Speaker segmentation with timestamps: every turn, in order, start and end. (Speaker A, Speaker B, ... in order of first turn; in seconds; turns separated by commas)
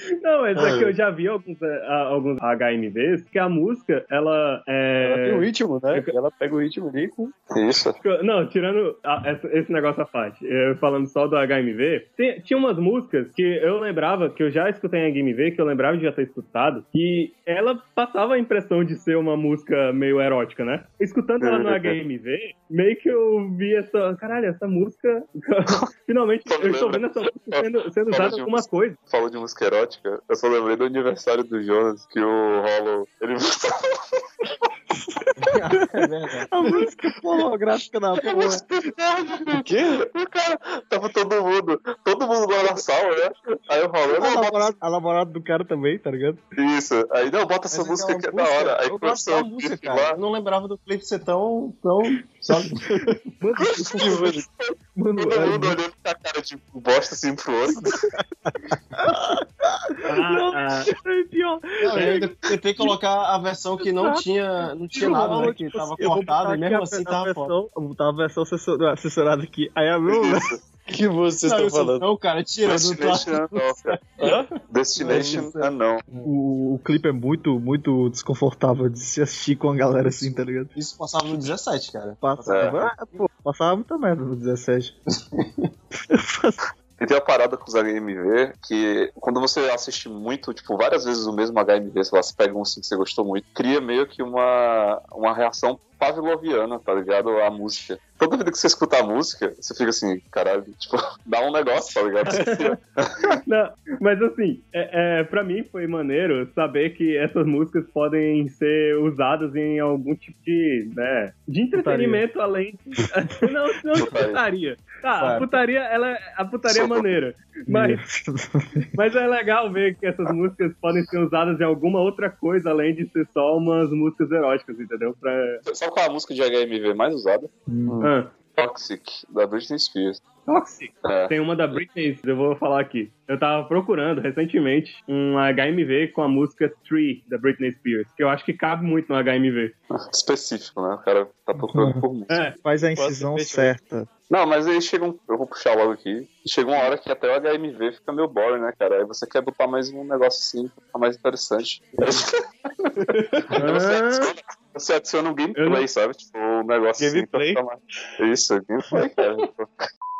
Speaker A: 0.2-6.1, Speaker B: 5.0-7.3, Speaker C: 7.5-8.0, Speaker A: 8.0-29.0, Speaker C: 21.4-22.0, Speaker C: 26.5-34.0, Speaker D: 35.2-38.6, Speaker E: 35.4-36.5, Speaker C: 38.2-44.7, Speaker B: 39.5-40.1, Speaker D: 44.1-46.4, Speaker C: 46.5-50.2, Speaker E: 47.7-53.1, Speaker B: 52.5-53.1, Speaker D: 53.4-54.4, Speaker C: 53.7-58.0, Speaker B: 54.0-54.4, Speaker D: 54.9-55.8, Speaker D: 58.5-62.3, Speaker A: 60.1-60.9, Speaker E: 61.8-67.5, Speaker B: 61.9-62.3, Speaker D: 64.0-64.2, Speaker D: 64.9-70.6, Speaker A: 65.0-65.5, Speaker C: 70.1-70.6, Speaker B: 70.9-72.0, Speaker E: 71.4-73.5, Speaker C: 72.6-74.0, Speaker B: 74.2-74.5, Speaker C: 74.7-76.0, Speaker E: 75.0-75.5, Speaker D: 75.0-75.7, Speaker D: 76.2-80.7, Speaker E: 80.7-83.2, Speaker D: 82.2-85.0, Speaker C: 82.5-82.8, Speaker E: 85.2-85.7, Speaker D: 86.1-86.6, Speaker C: 87.0-103.1, Speaker A: 102.3-102.7, Speaker A: 103.5-118.0, Speaker D: 111.7-112.2, Speaker C: 114.0-114.4, Speaker E: 115.2-115.5, Speaker C: 116.7-117.1, Speaker D: 117.7-118.9, Speaker A: 119.0-125.6, Speaker C: 125.7-127.5, Speaker D: 127.7-128.1, Speaker A: 128.0-128.3, Speaker C: 128.5-130.2, Speaker A: 130.4-139.7, Speaker C: 131.0-131.3, Speaker C: 139.9-142.5, Speaker D: 141.6-142.0, Speaker A: 142.3-142.6, Speaker D: 142.6-144.1, Speaker B: 142.9-143.8, Speaker C: 144.3-152.4, Speaker A: 153.5-154.3, Speaker C: 153.6-159.7, Speaker A: 155.6-155.8, Speaker B: 157.0-157.6